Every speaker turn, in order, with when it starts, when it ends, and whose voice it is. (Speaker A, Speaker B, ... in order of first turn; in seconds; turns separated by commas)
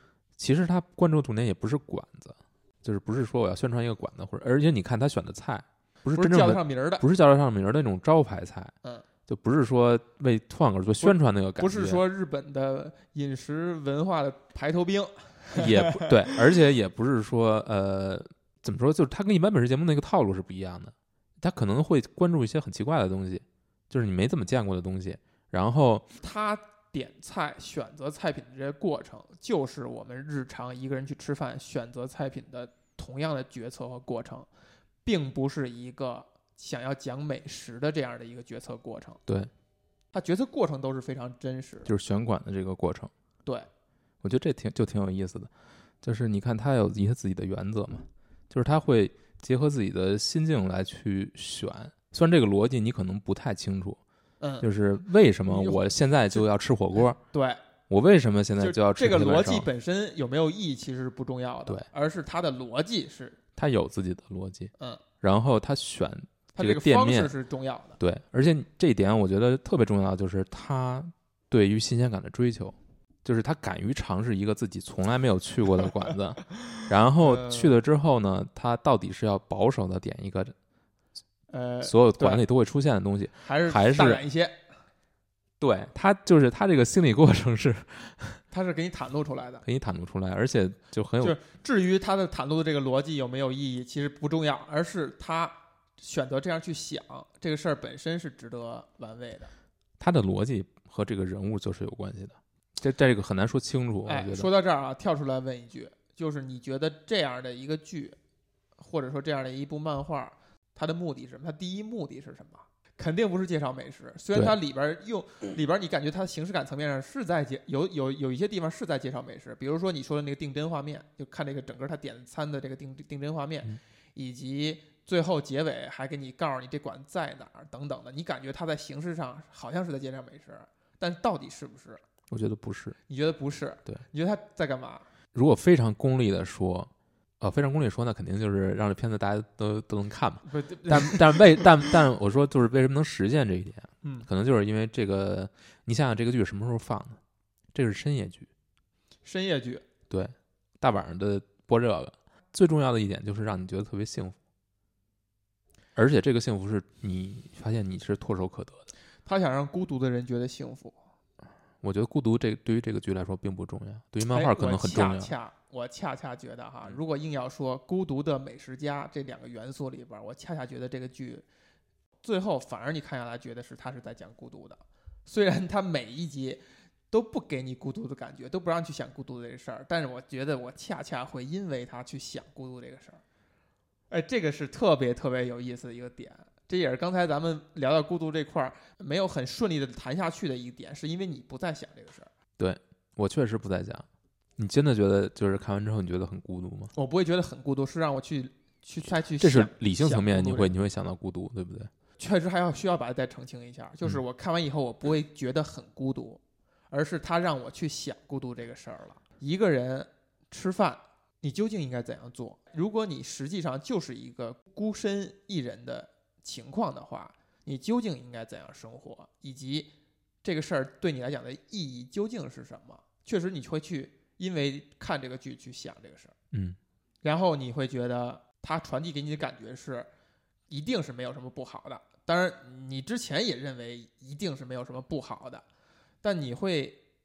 Speaker A: 0.4-8.7, Speaker B: 6.1-7.0, Speaker A: 9.3-12.0, Speaker B: 11.0-16.4, Speaker A: 15.5-26.1, Speaker B: 26.2-34.5, Speaker B: 35.0-39.2, Speaker B: 40.1-41.9, Speaker A: 41.9-43.1, Speaker A: 44.2-45.5, Speaker A: 46.0-54.0, Speaker B: 54.4-54.7, Speaker A: 54.6-57.2, Speaker B: 55.4-56.5, Speaker B: 57.2-57.6, Speaker A: 57.9-59.7, Speaker B: 58.6-63.4, Speaker A: 63.6-67.3, Speaker B: 66.5-68.0, Speaker A: 68.0-80.5, Speaker B: 76.5-77.8, Speaker B: 81.5-82.4, Speaker A: 81.8-84.2, Speaker B: 83.4-84.6, Speaker A: 85.6-88.4, Speaker B: 88.5-89.7, Speaker A: 89.7-91.4, Speaker B: 91.2-99.5, Speaker A: 100.0-104.5, Speaker B: 104.0-108.2, Speaker B: 108.8-132.0, Speaker A: 132.3-133.0, Speaker B: 133.1-135.1, Speaker A: 135.3-136.9, Speaker A: 137.4-147.2, Speaker B: 140.5-141.8, Speaker B: 144.0-144.3, Speaker A: 147.7-148.5, Speaker B: 149.2-149.8, Speaker A: 150.1-154.4, Speaker A: 156.0-158.9, Speaker B: 159.3-160.9, Speaker A: 161.8-165.3, Speaker B: 164.3-171.4, Speaker B: 172.2-183.2, Speaker B: 184.1-192.3, Speaker A: 192.6-194.1, Speaker A: 194.6-196.9, Speaker B: 196.9-200.8, Speaker A: 199.1-201.9, Speaker B: 202.2-219.9, Speaker B: 220.4-226.3, Speaker A: 226.5-226.8, Speaker B: 227.2-230.1, Speaker B: 230.7-235.7, Speaker B: 236.2-237.0